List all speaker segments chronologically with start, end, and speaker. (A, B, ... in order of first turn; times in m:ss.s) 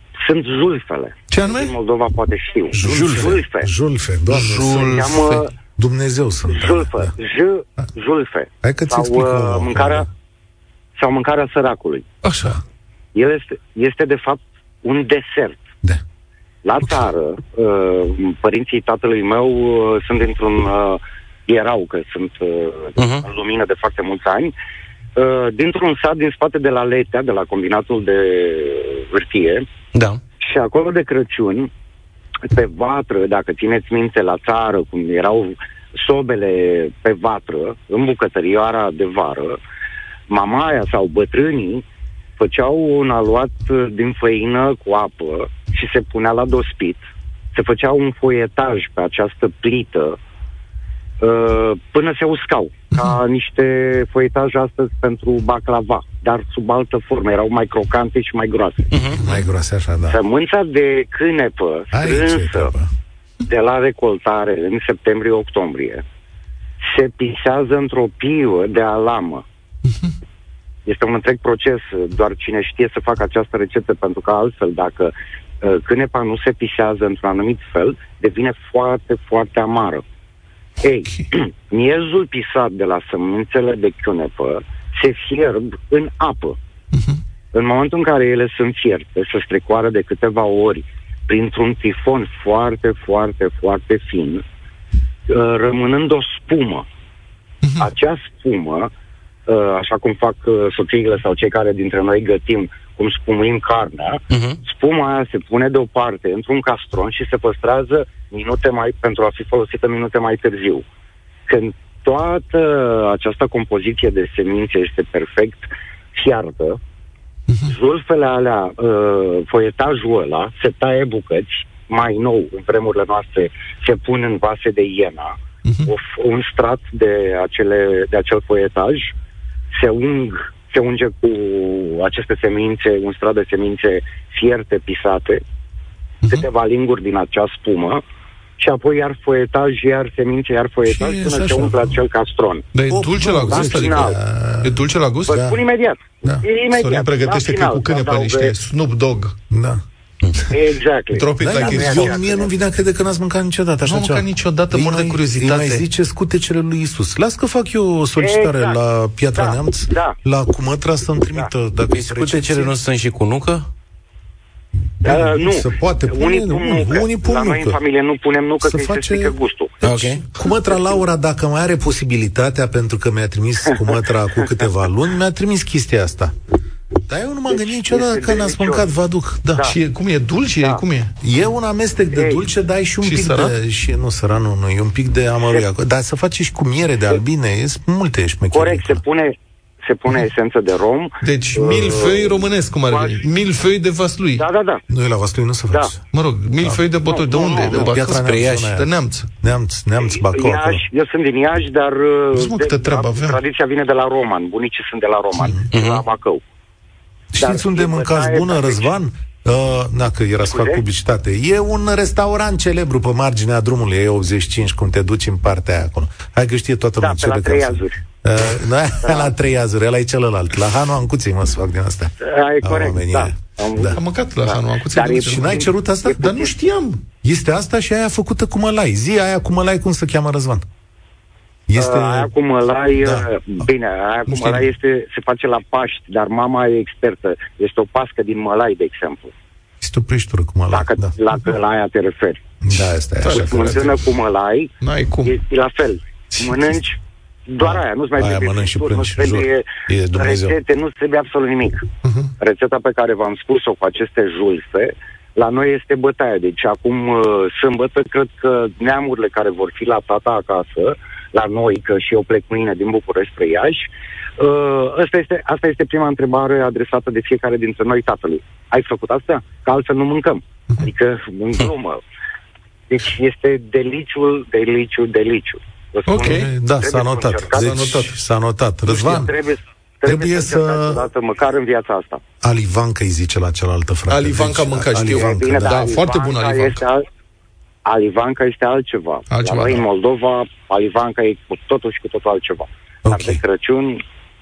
0:00.2-0:03.7 A
0:01.3-0:01.8 B
0:02.7-0:04.9 C
0:04.3-0:05.5 B
0:04.5-0:05.5 A
0:05.8-0:07.1 C
0:06.5-0:10.1 A
0:08.6-0:10.1 C
0:11.0-0:12.1 A
0:12.2-0:12.6 B
0:13.2-0:15.7 A
0:16.6-0:24.5 A
0:23.0-0:23.2 D
0:25.2-0:29.7 A
0:29.9-0:30.2 D
0:30.4-0:31.7 A
0:32.5-0:39.6 A
0:40.3-0:41.8 A
0:42.4-0:47.0 A
0:47.5-0:50.2 A
0:51.2-0:58.9 A
0:58.9-0:59.2 D
0:59.1-1:00.2 C
1:00.1-1:02.7 A
1:01.9-1:02.9 C
1:03.4-1:06.0 A
1:06.8-1:09.4 A
1:10.9-1:20.0 A
1:20.8-1:26.6 A
1:26.9-1:27.2 B
1:27.5-1:34.4 A
1:35.3-1:36.9 A
1:37.6-1:37.9 B
1:37.8-1:38.9 A
1:39.5-1:50.8 A
1:44.3-1:44.6 D
1:51.5-1:56.8 A
1:57.6-2:09.1 A
2:05.6-2:05.9 B
2:09.7-2:15.4 A
2:16.3-2:18.0 A
2:18.6-2:22.7 A
2:20.9-2:22.0 C
2:22.7-2:25.5 B
2:22.9-2:25.6 C
2:23.4-2:24.2 A
2:25.3-2:28.6 A
2:26.7-2:29.4 B
2:29.5-2:29.8 C
2:30.5-2:32.6 A
2:31.1-2:32.2 B
2:31.4-2:42.7 C
2:33.8-2:35.8 B
2:38.2-2:38.8 A
2:39.4-2:40.2 A
2:41.9-2:43.7 D
2:45.0-2:47.8 C
2:45.0-2:49.8 A
2:48.6-2:56.3 C
2:49.8-2:50.2 D
2:50.4-2:51.0 A
2:57.1-2:59.7 C
2:57.5-2:58.9 A
2:59.6-3:01.1 B
3:01.2-3:09.0 C
3:02.1-3:02.4 A
3:03.0-3:03.5 B
3:05.4-3:05.7 A
3:08.5-3:13.2 A
3:11.2-3:14.5 B
3:14.4-3:14.8 A
3:14.9-3:16.0 C
3:16.1-3:19.3 B
3:17.0-3:17.9 A
3:17.5-3:18.9 C
3:18.1-3:18.7 D
3:19.4-3:20.8 C
3:20.0-3:26.4 A
3:22.3-3:23.4 B
3:25.7-3:26.0 D
3:27.3-3:44.0 C
3:27.4-3:28.9 A
3:30.4-3:30.8 A
3:37.0-3:38.0 A
3:39.0-3:39.3 A
3:42.2-3:46.6 A
3:43.9-3:47.0 B
3:45.2-3:46.4 C
3:47.2-3:50.6 C
3:51.7-3:52.3 C
3:51.8-3:59.3 A
3:53.0-3:53.3 C
3:54.3-3:54.6 B
3:59.8-4:01.2 C
4:00.7-4:02.4 A
4:02.6-4:03.9 C
4:03.2-4:03.9 B
4:03.3-4:04.7 A
4:04.8-4:05.4 B
4:05.2-4:11.9 A
4:07.6-4:10.5 C
4:12.0-4:12.3 B
4:12.4-4:32.0 A
4:32.9-4:37.9 A
4:36.1-4:36.5 B
4:36.2-4:39.3 C
4:37.5-4:38.1 B
4:38.9-4:42.2 A
4:40.0-4:41.0 C
4:42.4-4:45.9 C
4:44.1-4:46.8 B
4:45.1-4:47.0 A
4:47.8-4:54.0 A
4:49.3-4:49.8 B
4:53.0-4:53.4 C